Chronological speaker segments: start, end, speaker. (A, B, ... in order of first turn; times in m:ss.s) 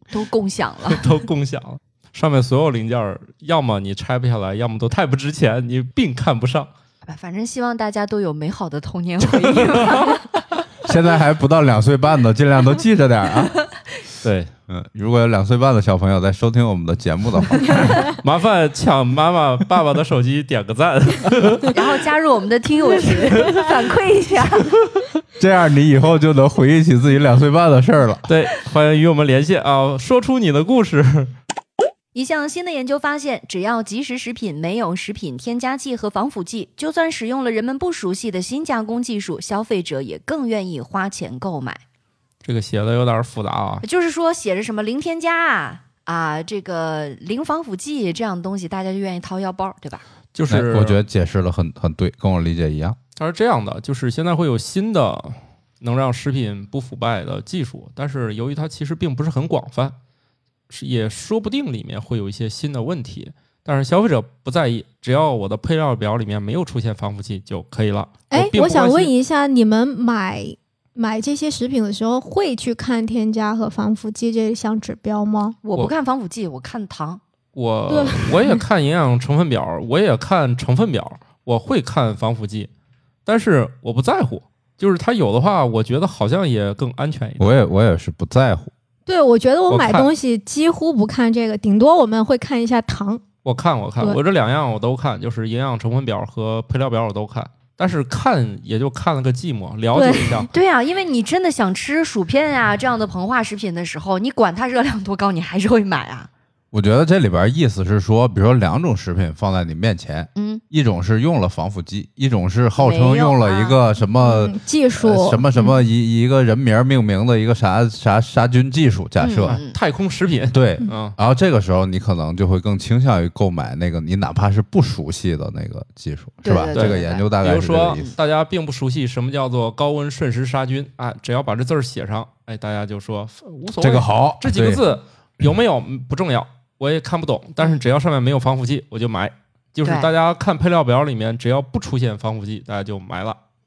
0:00.1-0:01.1 A
0:00.9-0:06.7 B
0:07.1-0:10.2 A
0:09.2-0:10.4 B
0:10.8-0:13.6 C
0:14.2-0:14.5 B
0:14.7-0:18.1 C
0:18.0-0:21.8 B
0:21.7-0:24.7 A
0:23.1-0:23.6 B
0:24.8-0:25.1 B
0:25.4-0:28.3 C
0:28.3-0:31.3 B
0:32.1-0:41.8 A
0:42.4-0:43.8 B
0:43.8-0:50.0 A
0:50.3-0:51.0 B
0:50.5-0:53.0 C
0:53.2-1:00.0 B
1:00.7-1:09.1 B
1:08.3-1:15.6 D
1:15.6-1:17.2 A
1:17.6-1:22.7 B
1:17.9-1:18.6 D
1:23.3-1:27.5 B
1:27.4-1:28.7 C
1:29.1-1:33.2 D
1:29.7-1:30.1 B
1:33.4-1:40.5 B
1:39.9-1:40.5 D
1:40.5-1:46.3 A
1:46.7-1:59.6 C
1:50.4-1:50.6 A
1:52.8-1:53.8 A
1:54.2-1:55.4 D
1:59.2-1:59.8 A
1:59.5-2:01.2 B
2:00.5-2:08.1 C
2:06.4-2:07.3 A
2:06.7-2:23.4 B
2:13.8-2:14.8 C